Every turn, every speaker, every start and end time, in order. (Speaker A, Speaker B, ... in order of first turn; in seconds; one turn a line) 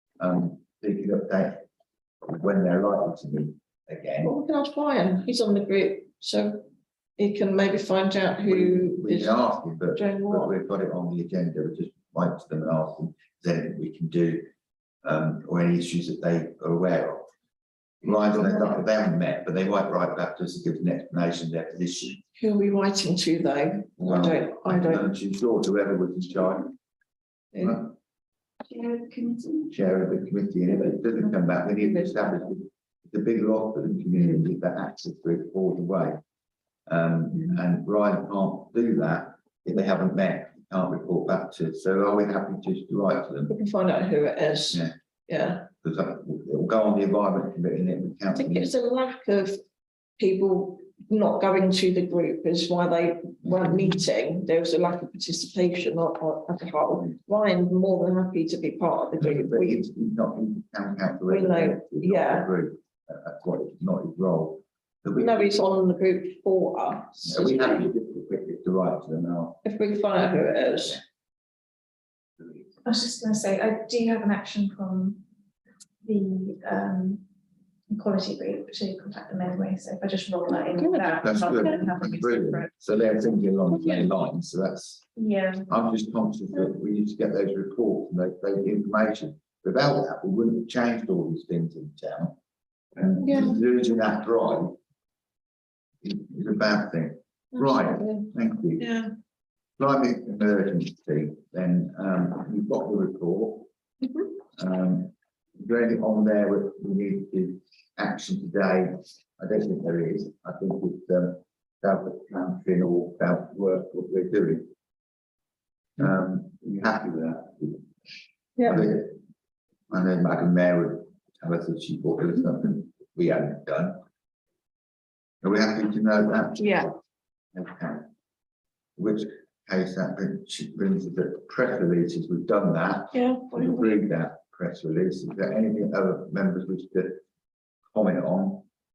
Speaker A: 0.2-1.6
Speaker A: 2.2-4.3
Speaker B: 4.2-6.7
Speaker B: 7.2-9.4
Speaker A: 8.4-14.5
Speaker B: 9.9-10.5
Speaker A: 15.0-17.3
Speaker A: 18.0-22.2
Speaker B: 22.4-25.1
Speaker A: 24.0-26.7
Speaker B: 27.5-27.8
Speaker A: 27.6-27.9
Speaker C: 28.7-29.7
Speaker A: 29.7-36.2
Speaker B: 30.8-31.0
Speaker B: 31.8-32.3
Speaker B: 34.1-34.5
Speaker A: 36.9-43.5
Speaker B: 37.3-37.6
Speaker B: 43.5-45.6
Speaker A: 45.8-48.7
Speaker B: 48.3-49.6
Speaker B: 50.2-59.8
Speaker A: 53.5-53.8
Speaker A: 59.2-65.5
Speaker B: 61.3-62.5
Speaker B: 65.2-67.9
Speaker A: 67.2-69.6
Speaker B: 69.6-71.0
Speaker C: 72.8-75.2
Speaker C: 76.0-77.2
Speaker C: 77.9-82.7
Speaker B: 80.5-81.8
Speaker A: 81.2-85.0
Speaker B: 83.7-84.1
Speaker C: 85.2-85.6
Speaker A: 85.7-92.3
Speaker A: 93.0-94.7
Speaker B: 93.2-93.6
Speaker A: 96.0-98.9
Speaker B: 97.6-98.2
Speaker B: 98.8-99.1
Speaker A: 99.8-103.7
Speaker A: 104.6-114.6
Speaker A: 116.0-117.8
Speaker B: 118.6-118.9
Speaker A: 118.6-119.2
Speaker A: 119.9-124.0
Speaker A: 125.4-126.8
Speaker B: 126.6-126.9
Speaker A: 127.5-128.1
Speaker A: 129.0-137.2
Speaker B: 133.1-134.0
Speaker A: 137.9-138.6